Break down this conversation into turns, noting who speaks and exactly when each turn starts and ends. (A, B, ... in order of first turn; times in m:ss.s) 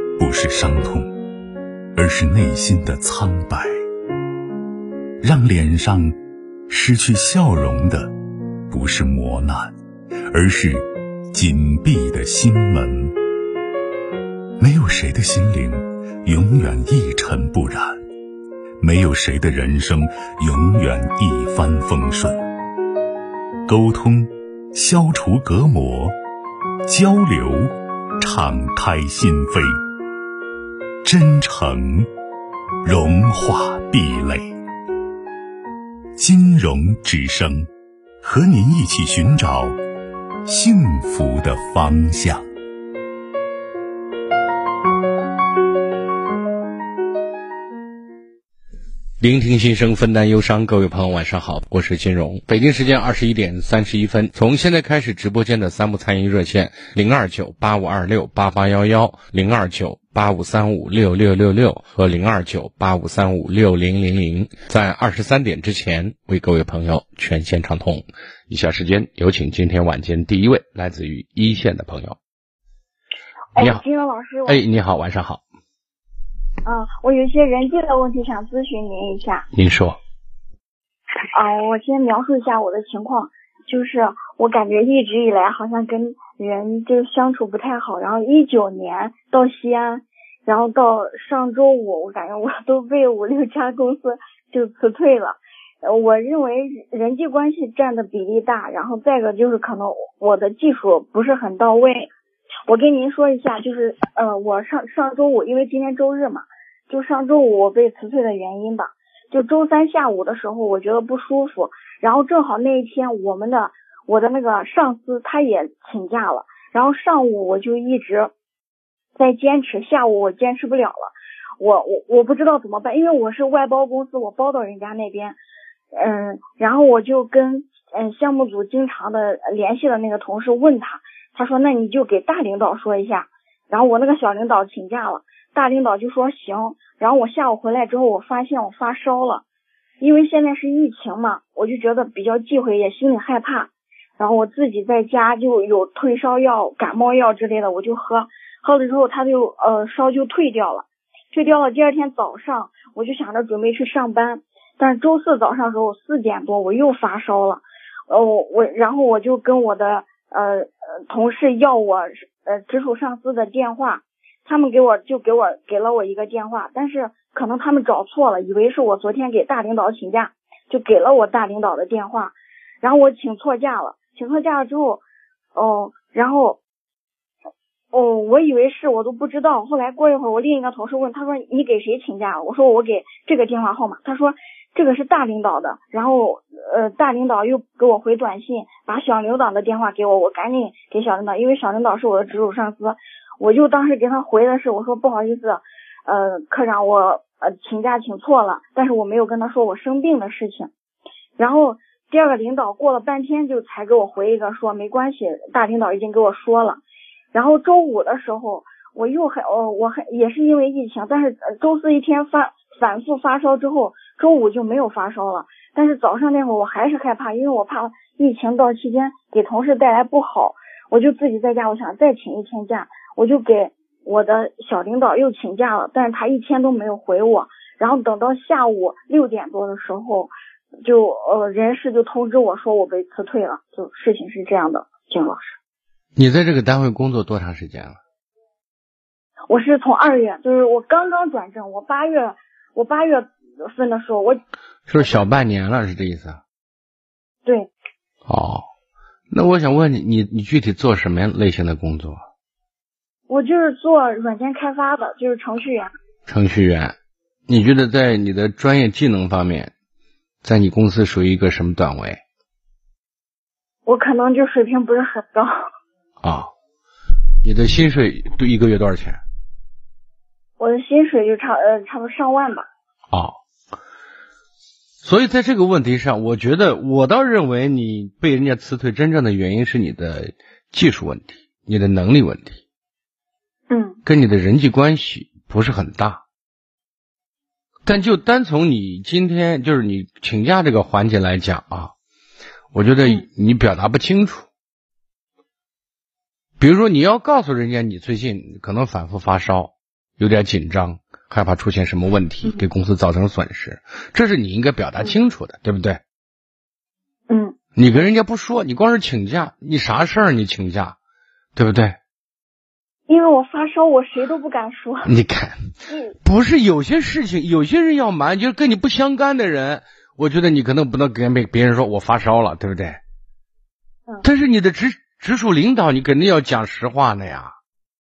0:00.2-0:01.1 A
0:01.9-0:03.8 A
0:05.2-0:06.1 A
0:06.7-0:08.1 A
0:08.7-0:09.7 A
0:10.3-0:13.1 A
0:14.6-0:18.0 A
0:18.8-0:22.4 A
0:23.6-0:26.1 A
0:26.8-0:29.8 A
0:31.0-0:32.1 A
0:32.8-0:34.5 A
0:36.1-0:37.7 A
0:38.2-0:39.8 A
0:40.4-0:42.4 A
0:49.2-1:12.2 B
1:13.6-1:14.6 C
1:13.6-1:13.8 B
1:14.4-1:15.4 B
1:16.6-1:19.4 C
1:19.5-1:20.0 B
1:21.3-1:42.1 C
1:42.7-1:58.3 C
1:59.2-2:05.4 C
2:06.0-2:19.4 C
2:20.0-2:55.0 C
2:55.6-2:56.6 C
2:57.9-3:20.7 C
3:21.4-3:26.8 C
3:27.3-3:50.3 C
3:50.8-3:55.6 C
3:56.2-3:58.0 B
3:59.5-4:04.4 C
4:04.9-4:06.4 B
4:08.2-4:08.6 B
4:09.3-4:12.2 B
4:13.3-4:15.9 C
4:16.3-4:17.0 B
4:17.5-4:19.7 B
4:20.4-4:22.2 B
4:23.8-4:25.6 C
4:26.2-4:26.5 B
4:27.4-4:29.2 B
4:30.6-4:32.6 C
4:33.1-4:33.4 B
4:35.0-4:42.6 B
4:43.7-4:44.0 C
4:44.0-4:46.2 B
4:47.8-4:51.9 B
4:52.7-4:54.4 B
4:56.6-5:06.0 B
5:07.3-5:07.6 C
5:07.8-5:11.0 B
5:11.6-5:12.0 B
5:13.1-5:15.1 C
5:15.0-5:15.6 B
5:15.9-5:16.1 C
5:16.2-5:23.0 B
5:24.2-5:27.5 B